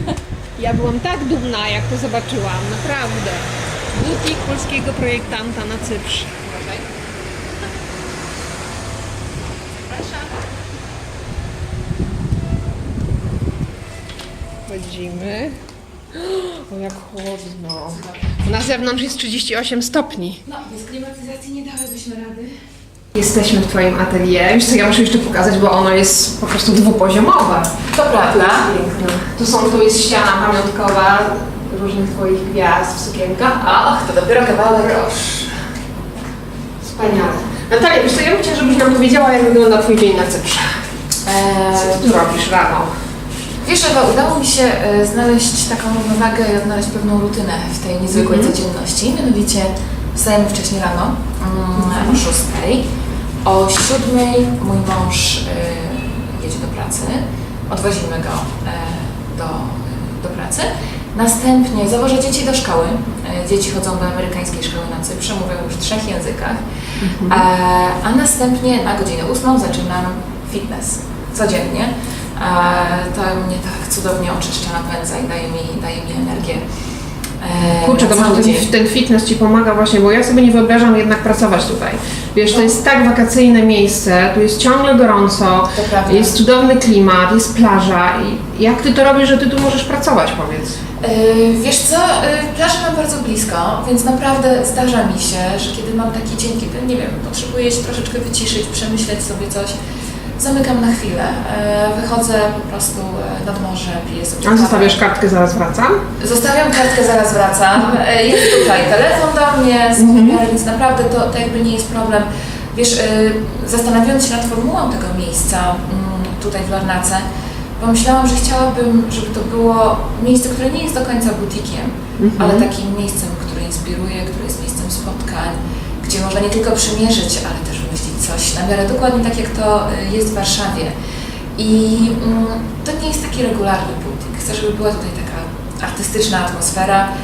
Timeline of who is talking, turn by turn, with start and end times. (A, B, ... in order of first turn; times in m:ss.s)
0:00.6-0:06.8 A
0:09.9-0:10.4 B
0:14.7-0:15.6 A
0:16.1-0:20.4 A
0:20.4-0:22.5 B
0:23.1-0:33.9 A
0:27.9-0:28.7 B
0:33.6-0:35.5 B
0:36.8-0:40.8 A
0:41.2-0:42.1 B
0:41.7-0:42.9 A
0:43.6-0:52.8 B
0:48.1-0:48.6 A
0:51.8-0:52.2 A
0:53.4-1:06.6 B
1:07.0-1:07.4 A
1:07.2-1:16.6 B
1:17.4-1:18.7 B
1:17.8-1:30.8 A
1:22.5-1:22.8 B
1:25.7-1:26.4 B
1:31.0-1:39.8 B
1:40.4-1:45.0 B
1:44.4-1:46.0 A
1:46.2-1:57.2 B
1:50.0-1:50.4 A
1:57.8-2:10.9 B
2:02.2-2:02.7 A
2:11.6-2:17.1 B